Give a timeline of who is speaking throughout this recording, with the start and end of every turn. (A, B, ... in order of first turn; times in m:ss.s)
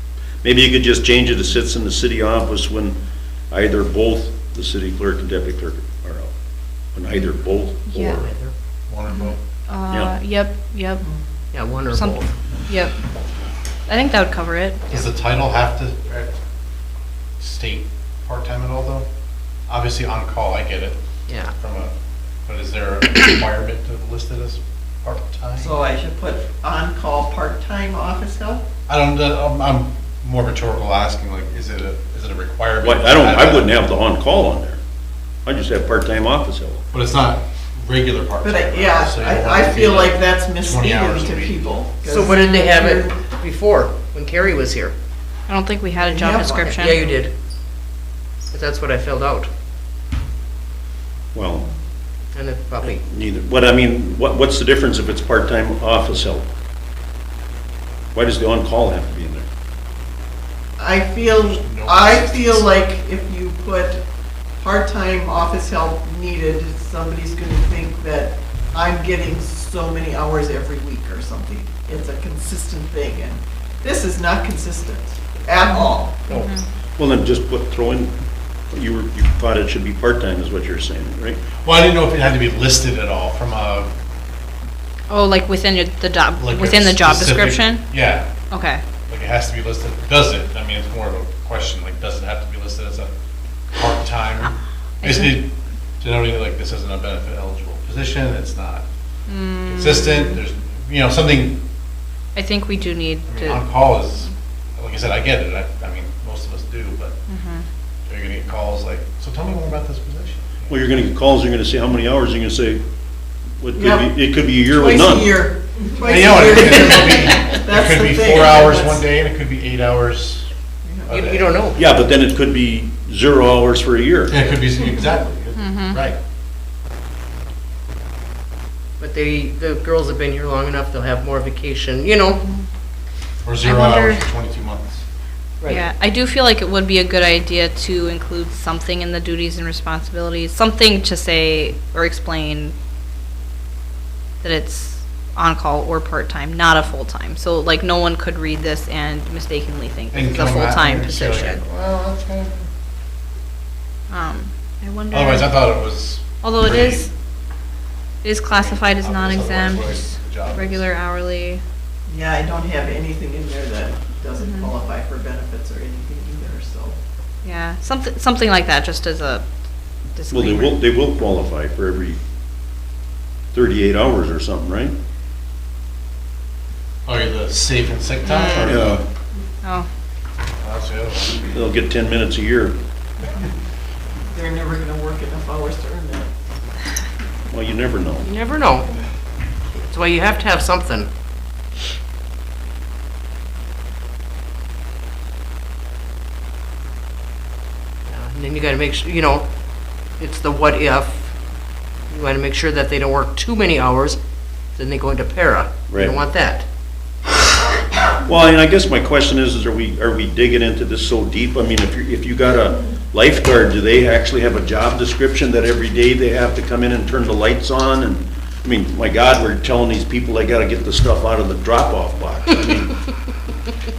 0:00.4-0:03.0 A
0:03.5-0:06.3 A
0:06.9-0:08.3 A
0:07.9-0:08.2 B
0:08.0-0:08.5 C
0:08.9-0:09.4 D
0:09.1-0:11.0 B
0:11.5-0:12.3 C
0:11.9-0:12.9 B
0:13.9-0:15.0 B
0:14.9-0:16.3 D
0:17.4-0:19.0 D
0:19.7-0:21.0 D
0:21.3-0:21.5 C
0:21.5-0:21.9 D
0:22.4-0:25.8 D
0:25.6-0:28.6 E
0:28.9-0:33.8 D
0:32.8-0:34.8 A
0:35.4-0:36.8 A
0:36.9-0:41.8 D
0:38.4-0:43.2 E
0:42.0-0:44.9 C
0:42.2-0:42.8 B
0:45.5-0:47.0 B
0:45.9-0:47.1 E
0:46.7-0:47.3 C
0:48.5-0:49.5 C
0:51.3-0:51.7 A
0:52.3-0:53.0 C
0:52.8-0:56.5 A
0:58.1-0:59.4 A
1:00.8-1:04.0 E
1:01.3-1:02.7 D
1:04.6-1:16.2 E
1:15.7-1:16.6 B
1:17.0-1:18.1 A
1:18.7-1:21.5 A
1:21.6-1:23.9 D
1:25.1-1:27.9 B
1:26.4-1:28.3 D
1:28.5-1:28.8 B
1:29.1-1:33.1 D
1:33.7-1:38.8 D
1:35.0-1:35.4 B
1:39.3-1:40.4 B
1:39.7-1:41.6 D
1:42.3-1:43.6 B
1:43.3-1:47.2 D
1:47.3-1:47.7 B
1:48.1-1:50.9 D
1:50.7-1:52.8 A
1:53.6-1:55.4 A
1:53.7-1:54.1 E
1:54.7-1:59.0 E
1:56.0-2:00.5 D
2:00.8-2:01.3 E
2:01.1-2:01.5 D
2:01.1-2:01.8 C
2:01.7-2:04.4 A
2:04.3-2:06.2 D
2:05.6-2:06.0 B
2:09.0-2:12.4 C
2:13.4-2:15.0 D
2:13.6-2:14.2 B
2:15.6-2:22.7 B
2:24.4-2:31.6 B
2:30.1-2:32.7 D
2:34.1-2:35.6 B
2:35.1-2:37.1 D
2:36.4-2:37.1 B
2:38.2-2:41.6 B
2:38.5-2:40.8 D
2:42.1-2:47.0 E
2:44.4-2:44.7 B
2:47.4-2:49.4 B
2:50.1-2:50.8 B
2:50.3-2:52.2 A
2:53.5-2:55.0 A
2:57.0-2:59.0 D
2:58.2-2:58.7 B
2:58.6-2:59.0 A
3:00.6-3:01.4 D
3:01.3-3:02.8 A
3:04.3-3:06.3 E
3:07.5-3:08.3 A
3:08.2-3:08.9 C
3:09.7-3:11.1 C
3:18.1-3:19.5 C
3:20.2-3:21.3 C
3:22.1-3:24.2 C
3:24.8-3:26.6 C
3:25.9-3:26.2 A
3:28.2-3:42.9 A
3:42.6-3:42.9 D